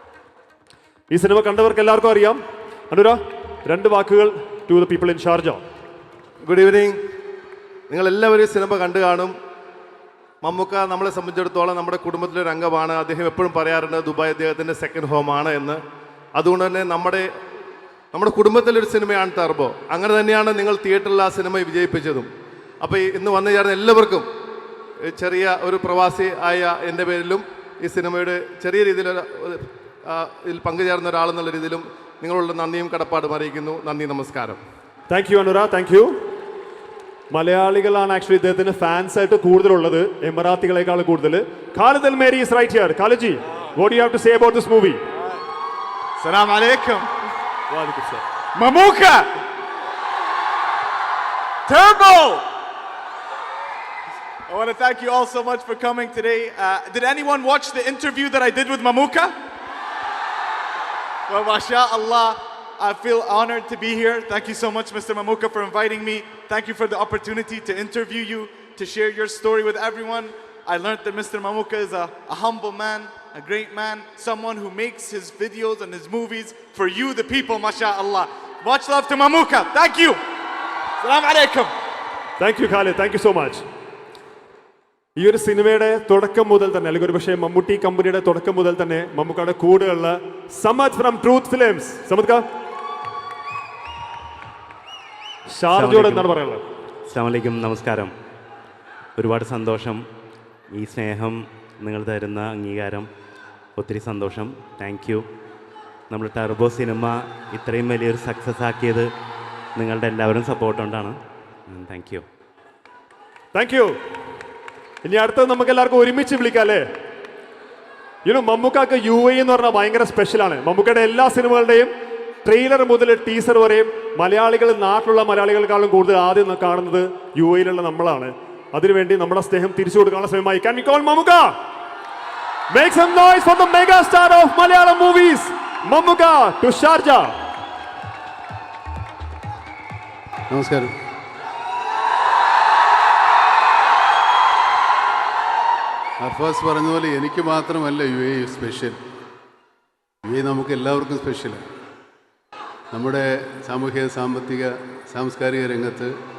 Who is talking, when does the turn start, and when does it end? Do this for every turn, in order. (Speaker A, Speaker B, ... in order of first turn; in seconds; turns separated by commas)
Speaker A: 1.1-5.6, Speaker B: 6.5-7.0, Speaker B: 7.9-9.3, Speaker B: 10.4-15.8, Speaker B: 16.4-17.3, Speaker B: 18.1-22.3, Speaker B: 22.8-24.3, Speaker B: 25.1-34.6, Speaker A: 35.1-36.2, Speaker A: 37.3-45.0, Speaker C: 46.2-47.0, Speaker A: 47.7-48.2, Speaker C: 48.6-49.2, Speaker C: 51.7-52.4, Speaker C: 54.5-59.3, Speaker C: 61.3-80.2, Speaker C: 81.1-81.7, Speaker A: 82.4-83.6, Speaker A: 85.2-92.4, Speaker A: 95.5-96.6, Speaker D: 97.1-98.1, Speaker D: 99.2-100.0, Speaker D: 100.8-103.1, Speaker D: 103.8-105.2, Speaker D: 106.1-109.0, Speaker D: 109.8-111.1, Speaker D: 111.8-112.2, Speaker A: 113.5-113.9, Speaker A: 115.0-116.8, Speaker A: 118.2-121.9, Speaker A: 122.4-131.5, Speaker A: 132.7-137.3, Speaker E: 140.5-140.9, Speaker E: 146.2-149.0, Speaker E: 150.2-151.6, Speaker E: 152.9-156.1